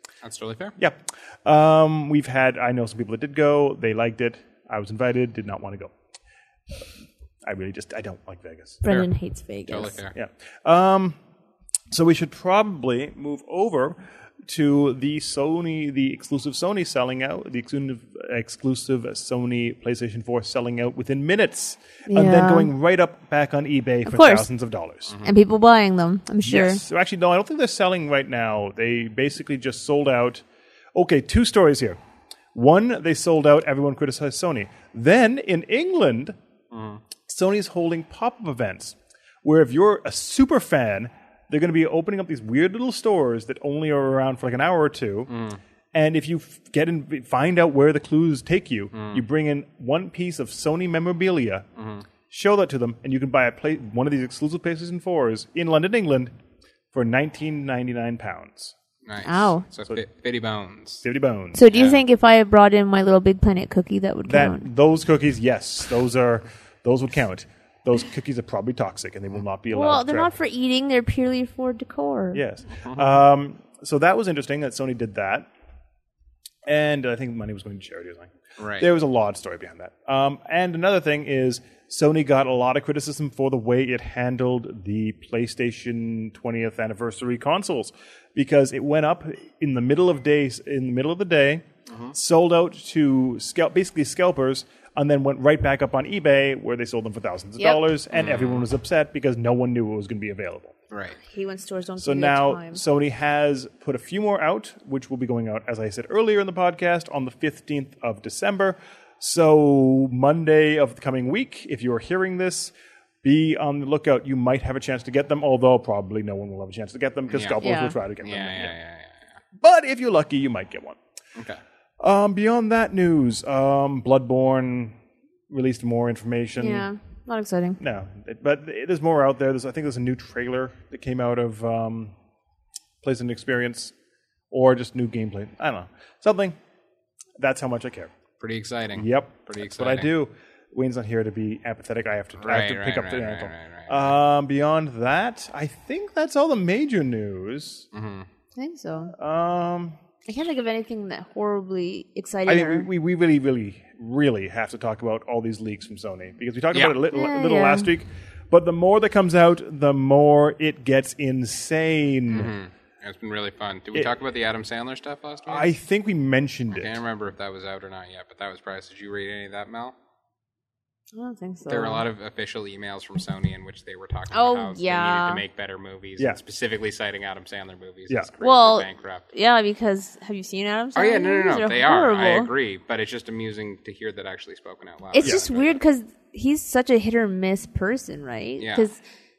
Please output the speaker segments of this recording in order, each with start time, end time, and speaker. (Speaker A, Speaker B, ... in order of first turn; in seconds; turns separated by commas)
Speaker A: 0.2-0.7, Speaker B: 0.8-5.9, Speaker B: 7.4-8.8, Speaker C: 8.8-10.0, Speaker A: 8.8-9.1, Speaker A: 9.7-10.1, Speaker B: 10.1-11.2, Speaker B: 11.9-25.1, Speaker C: 22.1-22.7, Speaker C: 24.1-24.5, Speaker C: 25.2-26.8, Speaker B: 26.4-32.0, Speaker B: 32.5-36.4, Speaker A: 36.7-37.0, Speaker B: 37.3-45.3, Speaker A: 45.3-45.6, Speaker B: 45.9-51.6, Speaker A: 48.9-49.2, Speaker A: 51.8-52.0, Speaker B: 52.3-56.3, Speaker B: 56.9-58.7, Speaker A: 59.0-61.0, Speaker C: 59.2-59.6, Speaker B: 61.0-61.6, Speaker C: 61.5-64.6, Speaker A: 61.7-62.0, Speaker B: 64.3-70.3, Speaker C: 69.7-72.4, Speaker B: 72.3-75.5, Speaker A: 72.8-73.2, Speaker B: 76.7-100.8, Speaker A: 78.6-78.9, Speaker A: 91.9-92.1, Speaker A: 98.1-98.7, Speaker A: 100.9-101.2, Speaker C: 101.2-102.8, Speaker B: 102.0-118.7, Speaker A: 117.3-117.6, Speaker C: 117.6-118.0, Speaker A: 118.2-119.2, Speaker B: 119.6-121.0, Speaker B: 122.0-125.0, Speaker B: 125.5-126.9, Speaker C: 126.6-127.8, Speaker B: 127.8-132.1, Speaker B: 133.0-133.9, Speaker B: 134.5-136.6, Speaker B: 137.4-138.1, Speaker A: 138.4-140.1, Speaker B: 138.9-147.9, Speaker A: 142.4-144.1, Speaker A: 147.9-148.3, Speaker C: 148.6-149.1, Speaker B: 149.1-150.0, Speaker C: 150.3-152.9, Speaker B: 152.4-162.5, Speaker C: 157.1-157.9, Speaker A: 162.3-165.7, Speaker B: 165.5-167.0, Speaker A: 166.7-169.9, Speaker C: 171.1-172.0, Speaker A: 171.7-179.2, Speaker C: 174.3-175.4, Speaker C: 178.4-182.5, Speaker A: 180.9-185.8, Speaker C: 185.1-189.0, Speaker A: 188.6-188.9